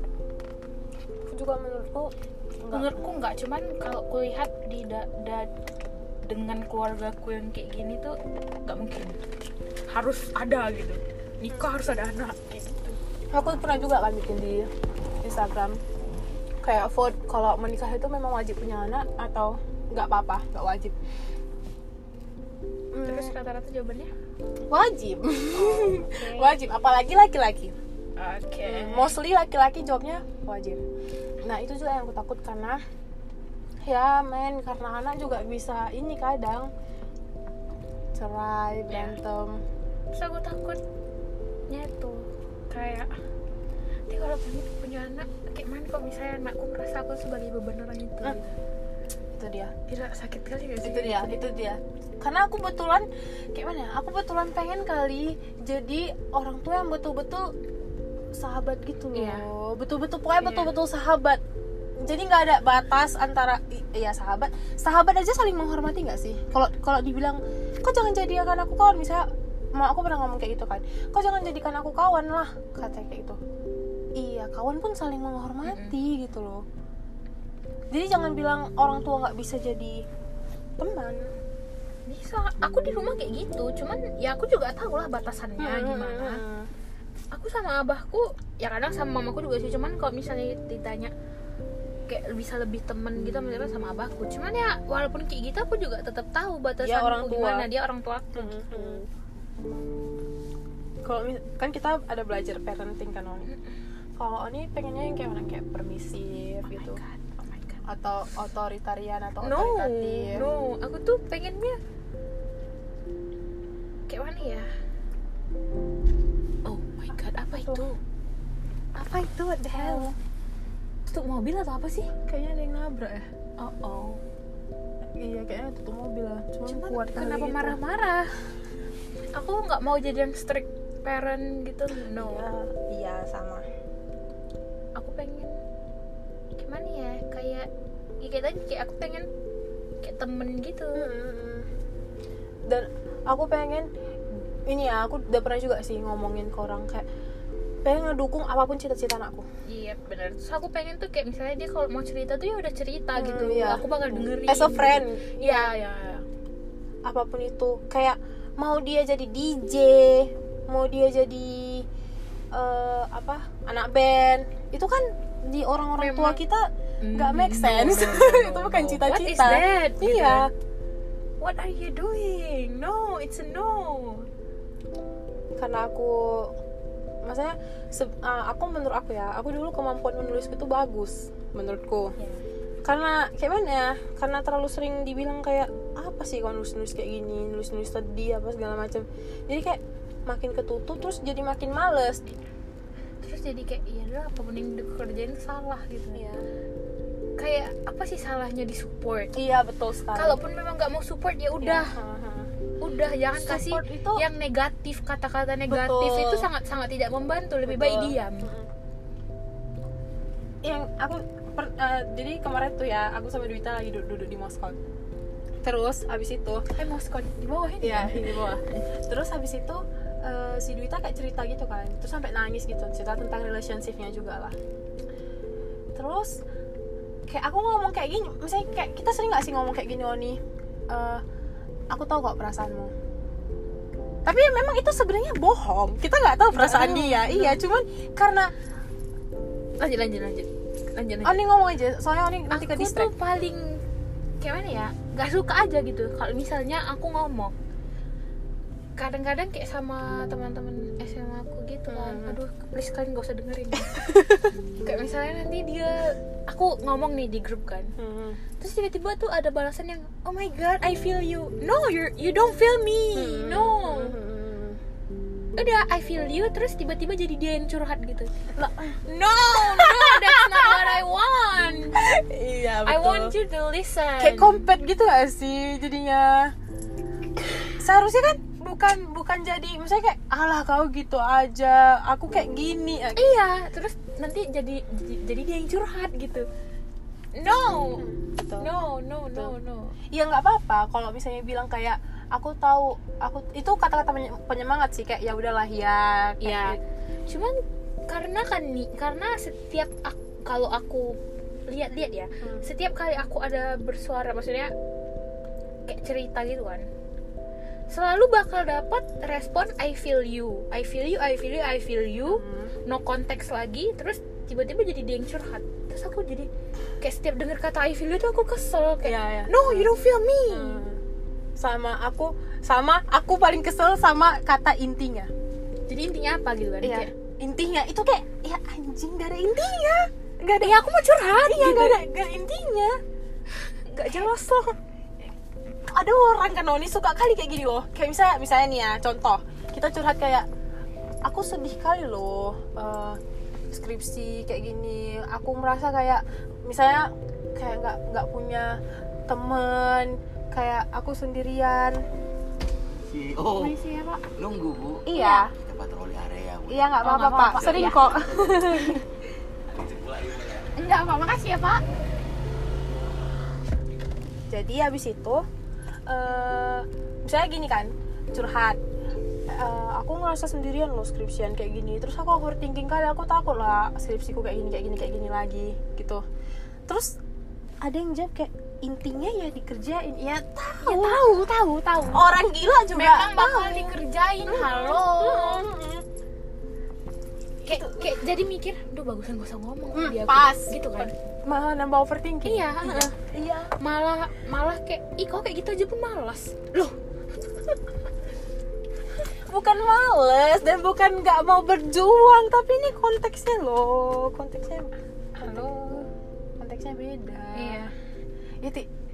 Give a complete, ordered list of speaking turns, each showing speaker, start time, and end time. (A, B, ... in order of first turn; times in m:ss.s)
0:01.3-0:02.1 A
0:02.6-0:03.0 A
0:02.7-0:05.5 B
0:06.2-0:09.2 B
0:09.9-0:13.0 B
0:11.5-0:11.8 A
0:13.3-0:14.7 A
0:15.2-0:15.8 A
0:16.6-0:21.0 A
0:22.9-0:23.3 A
0:23.0-0:24.1 B
0:24.7-0:27.8 A
0:25.5-0:26.5 B
0:28.2-0:29.1 B
0:28.6-0:30.8 A
0:31.4-0:32.8 A
0:33.9-0:36.7 A
0:38.1-0:39.6 A
0:38.9-0:39.2 B
0:40.1-0:40.8 B
0:41.7-0:43.1 B
0:44.1-0:48.6 B
0:49.4-0:49.7 A
0:49.9-0:51.4 B
0:50.8-0:57.5 A
0:58.4-1:01.4 A
0:59.1-0:59.5 B
1:00.4-1:00.7 B
1:02.0-1:13.4 A
1:14.2-1:16.6 A
1:15.7-1:16.0 B
1:17.9-1:20.1 A
1:20.8-1:21.3 A
1:22.1-1:26.4 B
1:25.6-1:26.7 A
1:27.3-1:31.1 B
1:32.1-1:39.0 B
1:36.8-1:37.7 A
1:38.4-1:39.1 A
1:41.0-1:43.5 A
1:43.5-1:43.7 B
1:44.2-1:47.0 A
1:46.6-1:47.8 B
1:47.9-1:50.4 A
1:49.4-1:51.8 B
1:54.1-1:54.7 B
1:56.6-1:58.0 B
1:57.6-1:57.8 A
1:59.0-2:00.2 A
1:59.7-2:00.1 B
2:01.1-2:02.1 B
2:02.3-2:03.3 A
2:03.6-2:04.2 B
2:05.2-2:07.8 A
2:06.7-2:08.3 B
2:09.3-2:12.5 B
2:12.2-2:13.6 A
2:15.0-2:15.5 B
2:16.6-2:17.7 B
2:18.2-2:19.3 B
2:20.0-2:21.1 B
2:20.9-2:21.7 A
2:22.7-2:23.9 A
2:24.7-2:27.0 A
2:27.8-2:29.5 A
2:29.7-2:36.2 B
2:33.2-2:35.8 A
2:37.0-2:41.9 A
2:42.5-2:50.5 A
2:46.0-2:46.4 B
2:47.0-2:50.5 B
2:51.4-2:54.3 B
2:55.6-2:56.5 A
2:57.2-3:02.1 A
3:02.8-3:12.4 A
3:13.2-3:16.3 B
3:16.2-3:16.4 A
3:17.4-3:19.4 B
3:19.4-3:20.4 A
3:20.1-3:21.9 B
3:21.6-3:22.5 A
3:22.8-3:28.5 B
3:23.3-3:24.2 A
3:25.7-3:26.5 A
3:27.7-3:28.7 A
3:30.6-3:34.8 A
3:35.6-3:36.6 A
3:36.8-3:38.8 B
3:37.8-3:44.6 A
3:46.0-3:46.4 A
3:47.3-3:51.2 A
3:51.9-3:52.9 A
3:54.2-3:58.5 A
3:56.5-3:57.6 B
3:59.8-4:01.4 B
4:01.2-4:03.1 A
4:02.5-4:03.8 B
4:04.4-4:07.5 B
4:09.0-4:14.1 B
4:11.9-4:12.4 A
4:14.0-4:14.3 A
4:14.8-4:17.9 B
4:18.0-4:18.4 A
4:18.6-4:24.2 B
4:23.2-4:24.8 A
4:25.6-4:28.3 B
4:28.6-4:31.0 A
4:29.1-4:32.0 B
4:32.0-4:33.4 A
4:32.8-4:34.6 B
4:34.2-4:36.5 A
4:37.8-4:43.4 A
4:43.2-4:46.5 B
4:47.4-4:48.0 B
4:48.0-4:48.7 A
4:48.6-4:49.9 B
4:50.1-4:56.8 A
4:56.4-5:04.7 B
5:05.9-5:06.9 B
5:07.9-5:16.5 B
5:12.2-5:12.7 A
5:17.0-5:20.8 B
5:19.0-5:19.9 A
5:20.5-5:21.0 A
5:21.6-5:25.3 A
5:25.9-5:27.1 B
5:26.8-5:33.0 A
5:30.6-5:32.0 B
5:33.9-5:34.7 B
5:35.9-5:40.5 A
5:41.2-5:43.2 A
5:43.7-5:52.0 A
5:53.0-5:53.8 C
5:53.6-5:54.2 B
5:54.4-5:58.4 C
5:55.1-5:55.5 A
5:55.1-5:55.5 B
5:56.7-5:59.0 A
5:57.0-5:58.0 B
5:58.7-5:59.0 B
5:59.7-6:00.7 C
6:00.8-6:01.8 B
6:04.5-6:05.4 A
6:06.1-6:08.8 A
6:09.5-6:16.2 A
6:16.9-6:17.2 A
6:17.8-6:21.4 A
6:20.8-6:22.2 B
6:22.1-6:26.0 A
6:22.9-6:25.7 B
6:27.6-6:31.1 B
6:27.7-6:28.1 A
6:29.9-6:33.1 A
6:32.4-6:37.0 B
6:39.5-6:47.9 A
6:47.6-6:47.9 B
6:48.6-6:48.9 A